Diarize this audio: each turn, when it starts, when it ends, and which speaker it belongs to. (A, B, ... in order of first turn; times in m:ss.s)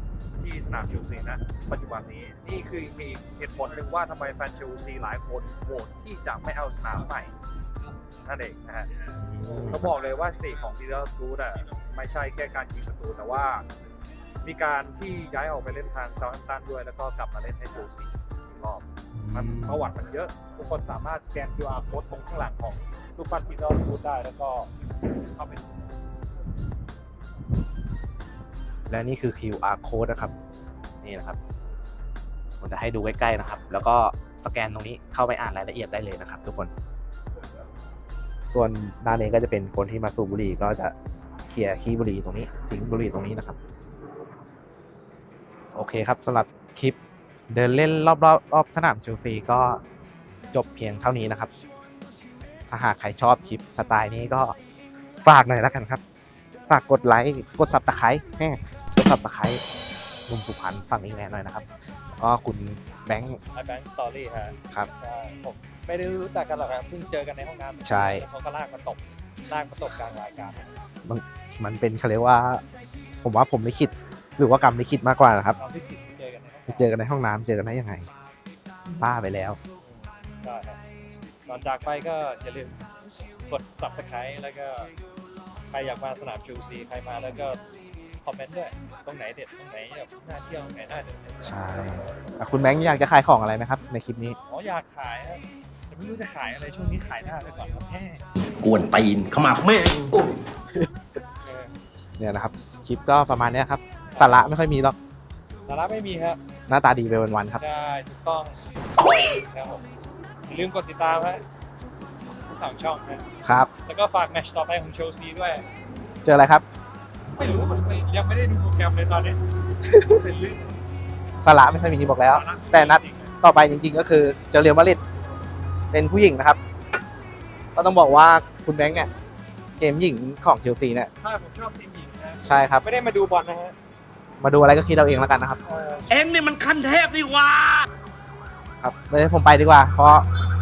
0:00.4-0:07.3 A
0:08.2-0:08.9 A
0:09.2-0:09.9 B
0:09.6-0:13.6 A
0:14.4-0:25.8 A
0:19.1-0:19.8 B
0:28.9-0:30.3 B
0:31.0-0:31.4 B
0:32.6-0:36.7 B
0:38.5-0:40.9 B
0:41.5-0:43.6 B
0:45.7-0:47.0 B
0:47.5-0:49.8 B
0:50.5-0:51.5 B
0:52.7-0:54.6 B
0:55.2-0:56.0 B
0:56.7-0:59.6 B
1:00.3-1:03.4 B
1:03.5-1:10.7 A
1:07.8-1:08.3 B
1:11.0-1:12.6 B
1:13.2-1:15.6 B
1:15.6-1:16.9 A
1:16.7-1:18.1 B
1:19.0-1:19.6 B
1:19.8-1:20.8 A
1:21.5-1:22.8 A
1:23.5-1:24.9 A
1:25.7-1:27.6 A
1:28.2-1:32.0 A
1:31.4-1:34.4 B
1:34.5-1:38.2 A
1:38.4-1:40.3 C
1:41.4-1:41.8 A
1:42.2-1:45.0 B
1:44.2-1:44.4 A
1:45.7-1:46.4 A
1:46.7-1:47.6 B
1:47.6-1:49.8 A
1:50.5-1:51.4 A
1:52.5-1:53.2 A
1:53.4-1:53.7 B
1:53.9-1:55.7 A
1:56.2-1:56.7 B
1:57.4-1:59.4 A
1:59.9-2:00.2 B
2:00.0-2:00.8 A
2:01.4-2:05.0 B
2:02.2-2:03.3 A
2:05.9-2:06.6 B
2:07.8-2:09.1 B
2:09.8-2:11.1 B
2:11.2-2:13.8 A
2:12.4-2:12.8 B
2:14.4-2:15.6 B
2:15.6-2:16.1 A
2:16.1-2:17.9 C
2:18.8-2:20.3 B